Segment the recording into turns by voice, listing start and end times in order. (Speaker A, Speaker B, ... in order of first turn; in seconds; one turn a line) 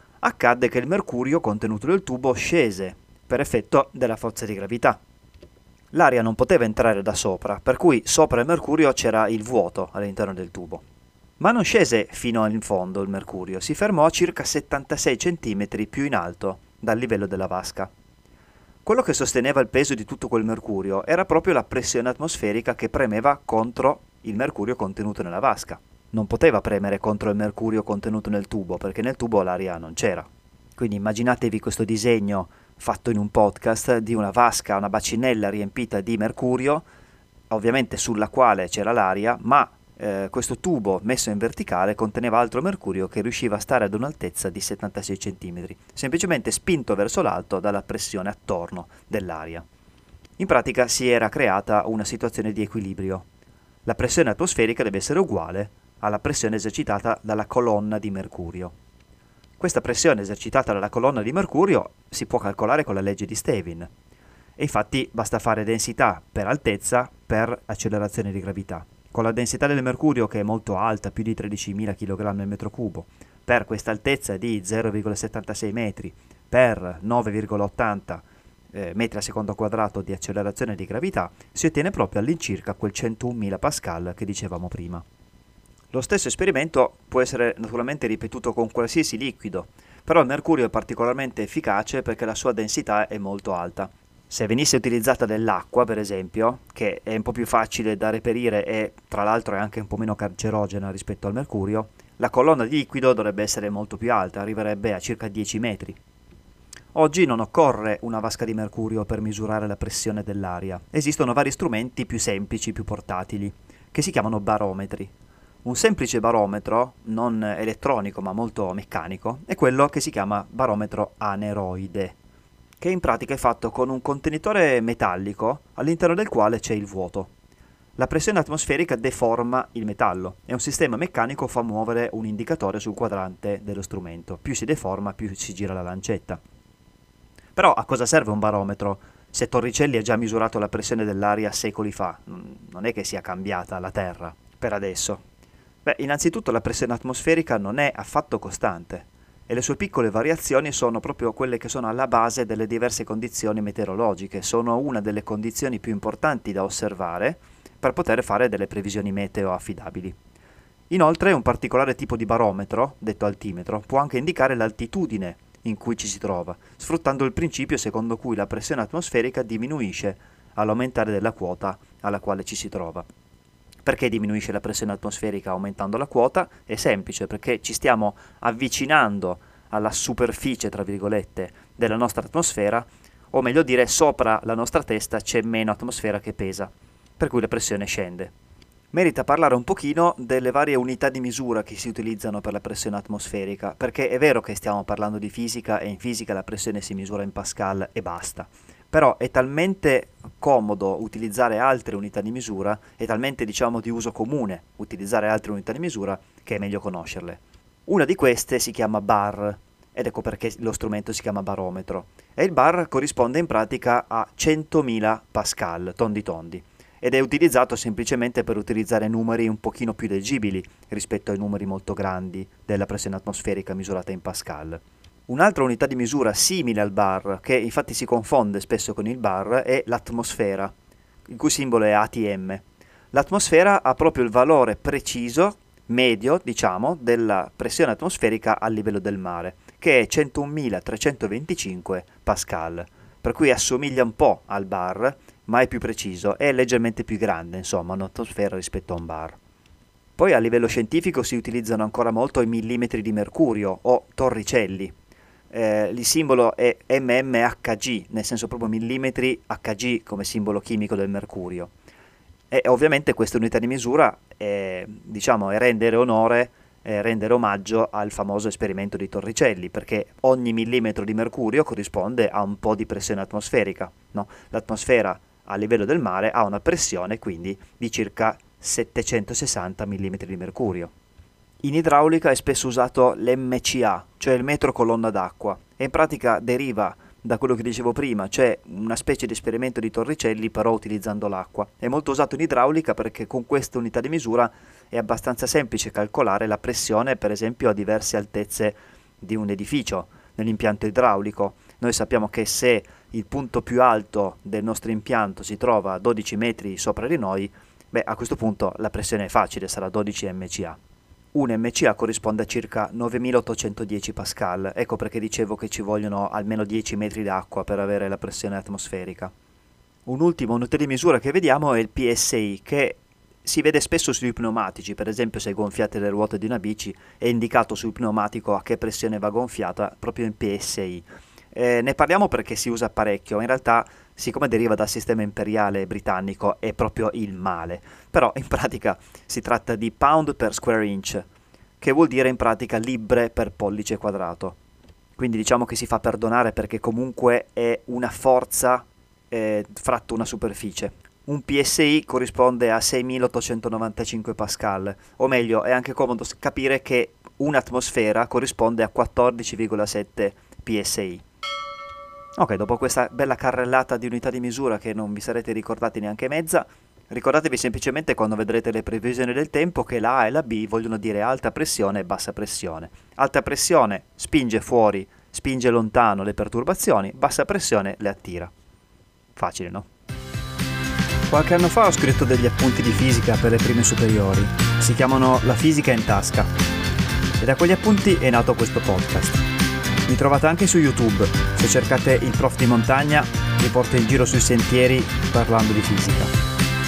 Speaker A: 0.2-5.0
Speaker A: 5.9-10.8
Speaker A: 11.4-17.9
Speaker A: 18.9-36.9
Speaker A: 37.5-49.6
Speaker A: 50.4-53.2
Speaker A: 53.9-58.7
Speaker A: 59.6-63.9
Speaker A: 64.6-85.0
Speaker A: 85.9-106.0
Speaker A: 106.9-115.1
Speaker A: 115.6-122.2
Speaker A: 122.8-127.3
Speaker A: 128.0-136.4
Speaker A: 137.6-145.2
Speaker A: 145.8-160.2
Speaker A: 160.9-173.1
Speaker A: 173.8-188.3
Speaker A: 188.9-230.7
Speaker A: 231.3-249.4
Speaker A: 250.2-254.9
Speaker A: 255.5-261.7
Speaker A: 262.5-280.9
Speaker A: 281.6-310.8
Speaker A: 311.3-319.3
Speaker A: 320.1-341.3
Speaker A: 341.8-344.6
Speaker A: 345.2-361.2
Speaker A: 362.4-378.5
Speaker A: 379.4-379.9
Speaker A: 381.3-386.5
Speaker A: 387.4-389.4
Speaker A: 390.1-396.3